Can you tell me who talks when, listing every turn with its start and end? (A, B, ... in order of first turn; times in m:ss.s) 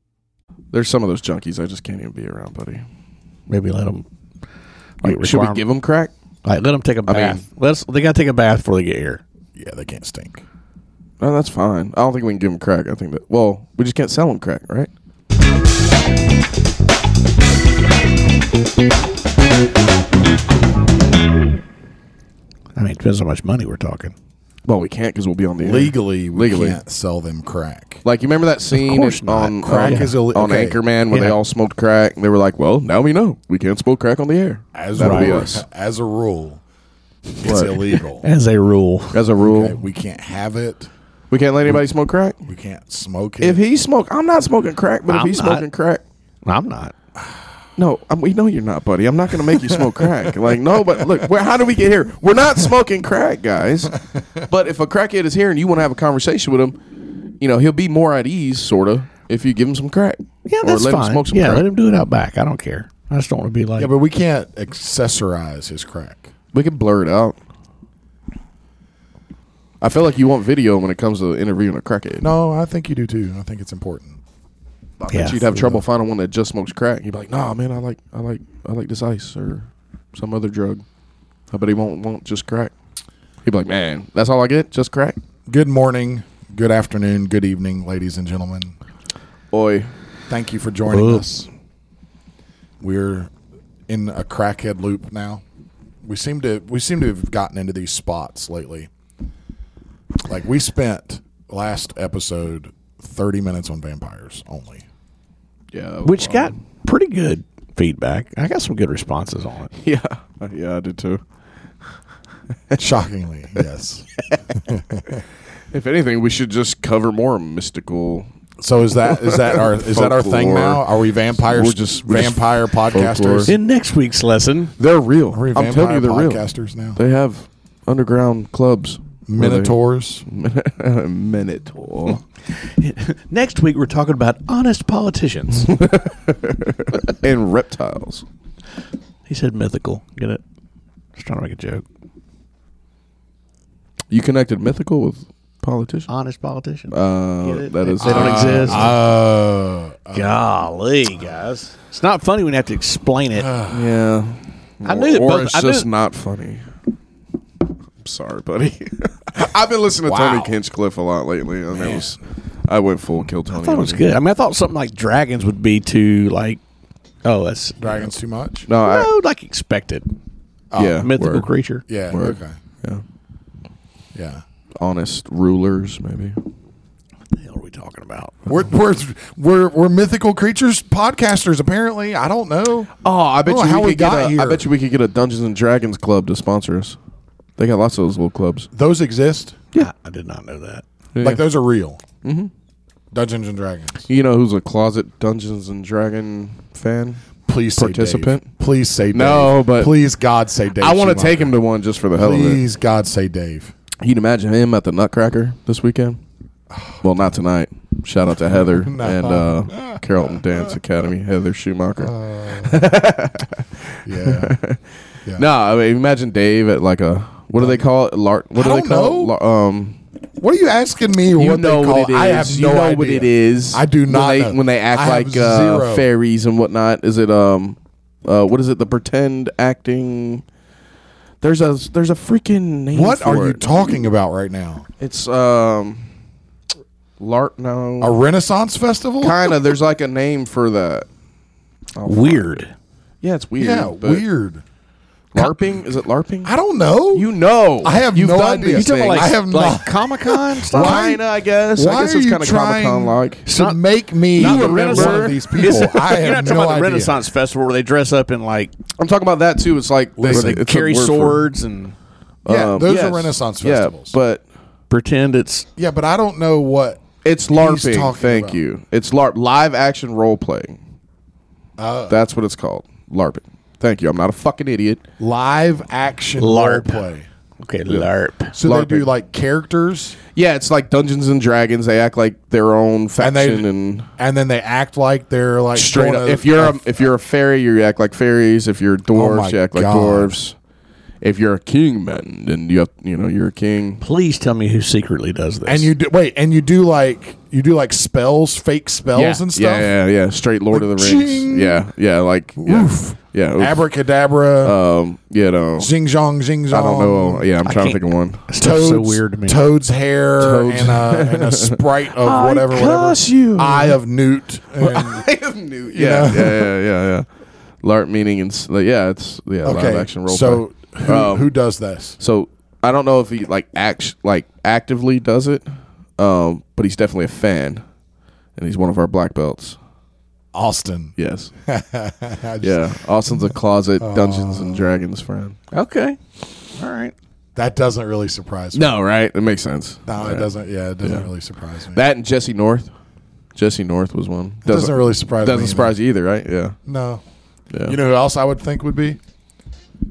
0:00.7-0:02.8 A
0:03.5-0:04.0 B
0:05.0-0:05.6 B
0:05.0-0:06.1 A
0:06.4-0:09.2 B
0:07.1-0:07.4 A
0:09.6-0:10.4 C
0:11.2-0:14.9 A
0:22.8-0:24.1 B
0:24.7-0:26.8 A
0:25.6-0:28.0 C
0:28.0-0:35.6 A
0:28.7-0:30.1 B
0:29.6-0:30.8 C
0:31.1-0:31.4 B
0:34.8-0:36.6 C
0:35.0-0:35.4 B
0:37.4-0:37.9 A
0:37.4-0:38.3 C
0:38.2-0:39.2 B
0:39.1-0:39.8 A
0:39.4-0:40.9 C
0:41.3-0:42.4 A
0:42.5-0:43.6 C
0:43.4-0:46.0 A
0:45.1-0:45.7 B
0:46.4-0:46.9 B
0:47.8-0:54.0 A
0:49.8-0:50.1 C
0:51.0-0:51.3 C
0:54.5-0:56.8 A
0:57.4-1:01.6 A
1:00.5-1:03.9 B
1:03.8-1:06.3 C
1:06.5-1:07.4 A
1:09.8-1:12.3 A
1:12.2-1:14.2 C
1:15.0-1:20.8 A
1:15.1-1:15.4 B
1:15.5-1:15.8 C
1:21.5-1:22.7 A
1:23.4-1:25.2 A
1:25.5-1:28.7 C
1:29.5-1:29.9 A
1:30.3-1:31.5 C
1:30.9-1:31.2 B
1:32.8-1:33.3 C
1:33.9-1:35.4 C
1:36.0-1:38.9 C
1:40.3-1:44.8 C
1:45.7-1:46.5 A
1:46.0-1:49.7 B
1:49.8-1:51.2 A
1:52.8-1:55.2 C
1:55.7-1:58.3 A
1:58.6-2:03.5 C
1:59.1-2:00.8 A
2:01.4-2:03.5 A
2:03.5-2:04.7 B
2:04.8-2:06.4 A
2:05.3-2:07.0 C
2:07.0-2:09.8 A
2:09.3-2:10.2 C
2:10.3-2:12.2 A
2:12.6-2:15.8 B
2:15.6-2:18.2 A
2:19.3-2:20.4 B
2:21.2-2:21.8 B
2:24.1-2:26.1 A
2:26.1-2:28.9 B
2:26.9-2:28.9 A
2:28.0-2:30.4 C
2:30.1-2:33.5 B
2:33.3-2:34.0 C
2:33.7-2:36.6 A
2:34.8-2:35.9 B
2:38.0-2:44.0 A
2:40.1-2:40.6 C
2:41.7-2:42.2 C
2:43.5-2:46.6 B
2:47.2-2:48.1 B
2:47.8-2:48.7 C
2:48.7-2:49.1 A
2:48.8-2:50.1 B
2:50.7-2:51.1 C
2:50.8-2:51.5 A
2:51.0-2:51.8 B
2:51.9-2:52.6 C
2:52.1-2:53.0 A
2:54.1-2:54.4 C
2:54.8-2:56.4 A
2:57.3-2:58.5 B
2:58.5-3:02.9 C
3:03.0-3:07.0 A
3:03.4-3:04.7 C
3:07.6-3:08.7 A
3:08.7-3:09.6 C
3:09.7-3:10.8 B
3:11.2-3:11.4 A
3:11.2-3:12.0 C
3:12.2-3:12.5 A
3:13.1-3:14.1 C
3:14.1-3:18.5 A
3:17.5-3:21.5 C
3:19.1-3:19.9 A
3:20.8-3:22.6 A
3:22.2-3:23.7 C
3:24.0-3:26.2 A
3:26.7-3:27.1 C
3:27.0-3:34.8 A
3:28.5-3:30.7 C
3:32.0-3:32.8 C
3:34.0-3:34.6 C
3:35.4-3:40.0 A
3:37.5-3:37.9 C
3:38.6-3:39.4 C
3:40.4-3:46.1 C
3:41.4-3:50.4 A
3:51.4-3:54.0 A
3:52.9-3:54.9 C
3:55.0-3:56.0 A
3:57.2-3:58.2 A
3:58.0-3:59.5 C
3:59.2-4:01.1 A
4:02.0-4:02.6 A
4:02.0-4:02.7 B
4:03.2-4:04.2 A
4:03.6-4:04.6 C
4:05.3-4:06.5 A
4:06.4-4:07.3 C
4:07.1-4:09.3 A
4:07.8-4:11.2 C
4:08.7-4:11.0 B
4:10.7-4:13.5 A
4:11.8-4:17.2 C
4:13.5-4:13.8 B
4:14.3-4:18.7 B
4:14.4-4:15.7 A
4:19.0-4:21.5 A
4:20.2-4:20.6 C
4:20.3-4:21.9 B
4:22.4-4:24.4 A
4:22.5-4:24.1 C
4:24.9-4:25.7 B
4:25.8-4:28.6 C
4:27.2-4:30.8 A
4:31.8-4:32.2 C
4:32.1-4:35.0 A
4:35.2-4:37.3 C
4:36.4-4:37.0 B
4:37.6-4:38.6 B
4:38.5-4:40.2 C
4:38.6-4:39.1 A
4:40.3-4:44.1 A
4:43.2-4:46.8 C
4:45.8-4:50.6 A
4:49.1-4:50.3 C
4:51.2-4:54.0 A
4:54.0-4:55.9 B
4:55.7-4:59.9 C
4:59.2-4:59.4 B
4:59.5-5:03.8 A
5:00.7-5:01.8 C
5:02.6-5:04.8 C
5:04.6-5:05.9 A
5:05.8-5:07.5 C
5:06.7-5:08.4 A
5:07.6-5:09.6 B
5:08.6-5:15.3 C
5:10.4-5:14.0 A
5:14.8-5:17.3 A
5:15.9-5:16.7 C
5:17.8-5:21.5 A
5:19.6-5:22.2 C
5:22.2-5:27.8 A
5:28.6-5:29.8 A
5:30.5-5:32.8 C
5:31.2-5:31.5 A
5:32.6-5:35.6 A
5:34.0-5:34.9 C
5:35.7-5:36.2 B
5:36.8-5:37.1 B
5:37.6-5:38.9 C
5:38.7-5:40.5 A
5:40.1-5:42.0 C
5:41.0-5:41.3 A
5:41.9-5:42.9 A
5:43.6-5:46.8 A
5:44.6-5:45.9 C
5:46.8-5:47.2 C
5:47.7-5:48.0 A
5:47.8-5:49.2 C